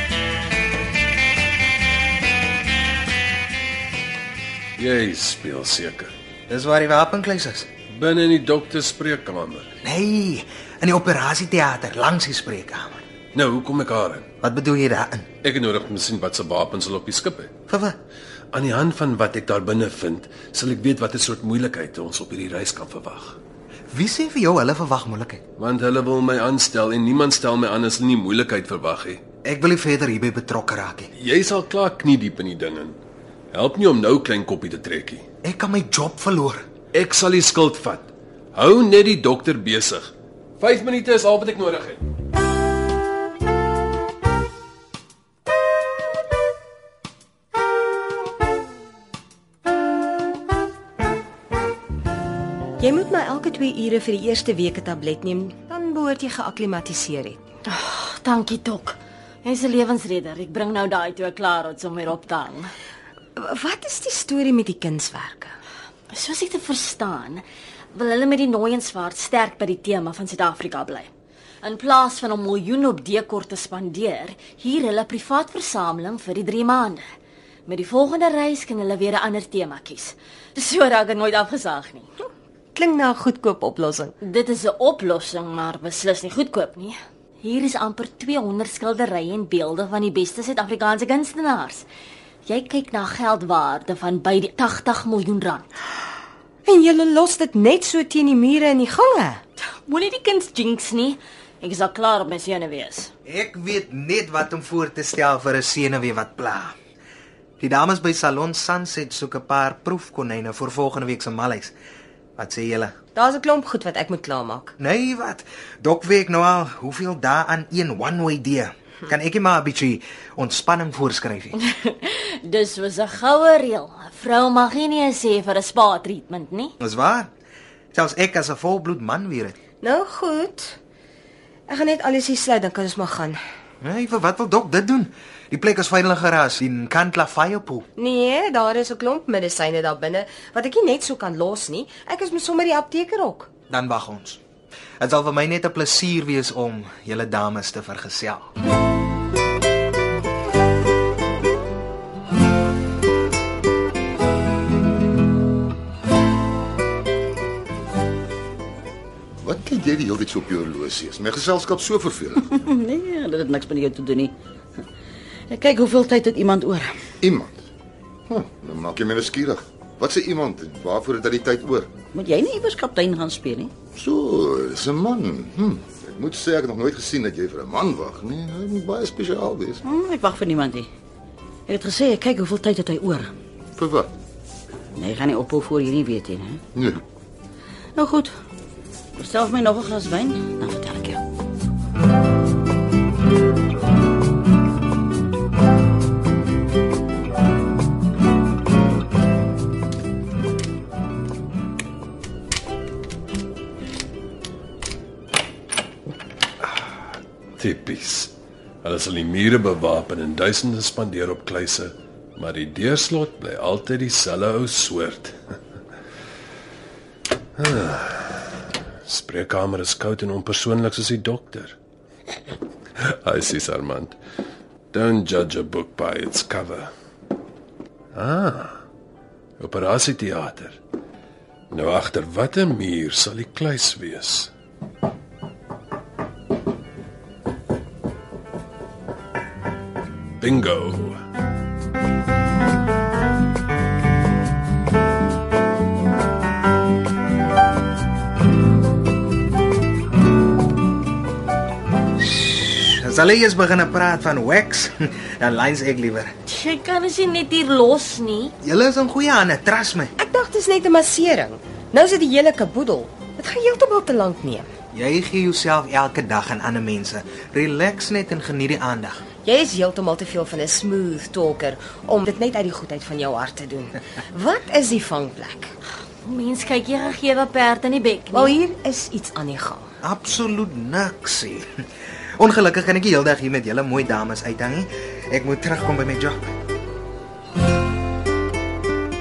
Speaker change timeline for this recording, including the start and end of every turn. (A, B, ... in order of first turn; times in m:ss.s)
0:04.8-0:06.1 A
0:06.5-0:07.7 B
0:07.9-0:09.7 A
0:09.8-0:13.0 B
0:13.4-0:14.2 A
0:14.4-0:15.2 B
0:15.4-0:17.5 A
0:17.7-0:18.0 B
0:18.6-0:23.4 A
0:23.9-0:25.4 B
0:25.6-0:29.2 A
0:29.5-0:31.1 B
0:31.2-0:33.0 A
0:33.5-0:35.2 A
0:35.5-0:36.6 B
0:37.0-0:42.0 A
0:52.8-0:57.4 C
0:57.7-1:02.7 D
1:03.4-1:05.6 C
1:06.1-1:11.1 D
1:11.6-1:17.0 D
1:17.7-1:22.1 D
1:22.8-1:24.2 C
1:24.2-1:31.8 D
1:32.5-1:35.7 D
1:36.7-1:39.4 C
1:39.9-1:43.1 D
1:43.3-1:46.7 B
1:47.6-1:51.7 B
1:52.4-1:52.9 B
1:53.2-1:54.8 C
1:54.8-2:01.5 B
2:01.6-2:06.7 D
2:06.8-2:07.3 B
2:07.9-2:09.5 B
2:09.8-2:10.8 C
2:11.7-2:13.4 C
2:13.8-2:17.9 B
2:18.0-2:23.5 C
2:23.7-2:24.4 B
2:25.0-2:28.5 B
2:39.4-2:42.5 E
2:42.5-2:44.4 F
2:45.5-2:46.9 F
2:47.2-2:47.6 E
2:48.3-2:51.9 E
2:52.1-2:53.7 F
2:54.0-2:59.8 E
2:59.8-3:00.9 F
3:01.7-3:03.3 F
3:03.8-3:04.1 E
3:05.0-3:06.6 F
3:06.8-3:07.0 E
3:08.0-3:08.4 F
3:09.2-3:11.2 F
3:27.6-3:35.4 A
3:37.6-3:38.5 A
3:39.1-3:41.7 A
3:43.0-3:44.2 A
3:44.9-3:46.9 A
3:48.2-3:48.8 A
3:49.6-3:50.8 A
3:51.7-3:54.5 A
4:00.4-4:01.2 A
4:12.2-4:16.3 B
4:16.5-4:18.5 D
4:18.7-4:20.1 B
4:20.2-4:24.7 C
4:25.0-4:29.2 B
4:29.4-4:35.7 C
4:36.2-4:38.5 D
4:38.3-4:39.9 C
4:40.0-4:41.6 B
4:42.4-4:46.4 B